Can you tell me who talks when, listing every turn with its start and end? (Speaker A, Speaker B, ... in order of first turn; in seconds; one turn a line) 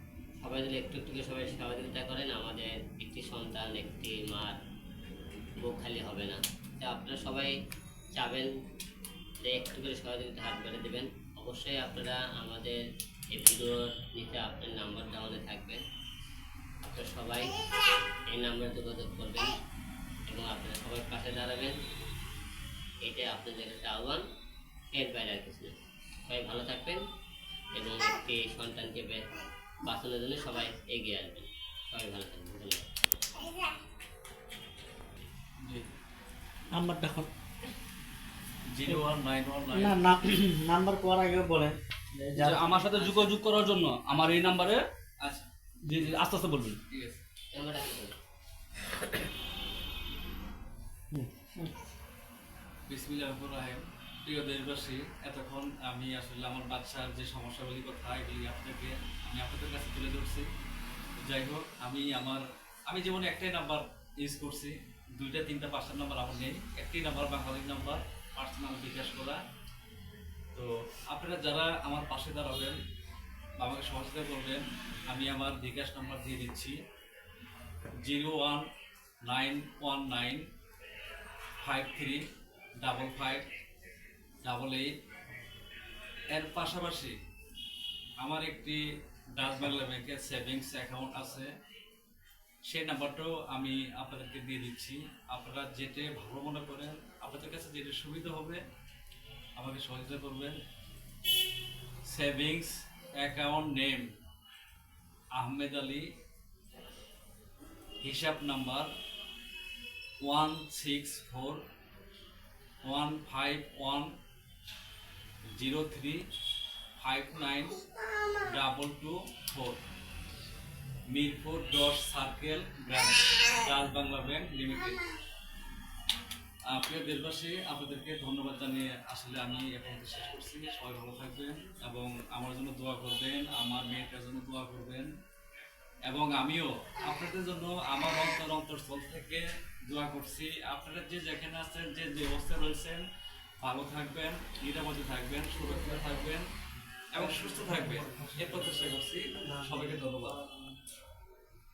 Speaker A: 0.4-4.6
Speaker A: 5.6-7.5
Speaker A: 8.1-8.5
Speaker A: 9.4-12.8
Speaker A: 13.3-15.8
Speaker A: 16.9-17.6
Speaker A: 18.3-19.6
Speaker A: 20.3-21.8
Speaker A: 23.0-24.2
Speaker A: 24.9-25.7
Speaker A: 26.3-27.0
Speaker A: 27.7-29.2
Speaker A: 29.8-32.9
Speaker B: 36.7-37.3
Speaker C: 38.6-40.0
Speaker B: 39.7-42.6
Speaker D: 42.4-44.8
Speaker C: 42.5-44.4
Speaker C: 45.2-47.2
Speaker D: 45.9-46.8
Speaker A: 47.5-48.1
Speaker B: 51.1-51.7
Speaker C: 52.9-60.5
Speaker C: 61.2-69.4
Speaker C: 70.5-72.8
Speaker C: 73.6-76.8
Speaker C: 78.0-78.7
Speaker C: 79.2-80.5
Speaker C: 81.6-82.2
Speaker C: 82.8-83.5
Speaker C: 84.4-84.9
Speaker C: 86.3-87.2
Speaker C: 88.2-88.8
Speaker C: 89.3-91.5
Speaker C: 92.7-98.6
Speaker C: 99.6-100.6
Speaker C: 102.0-104.1
Speaker C: 105.3-106.1
Speaker C: 108.0-108.9
Speaker C: 110.2-111.6
Speaker C: 112.8-114.1
Speaker C: 115.5-116.2
Speaker C: 117.0-119.8
Speaker C: 121.1-125.0
Speaker C: 126.7-135.1
Speaker C: 136.0-143.0
Speaker C: 143.6-146.5
Speaker C: 147.1-150.4
Speaker B: 147.2-148.8
Speaker B: 149.4-150.7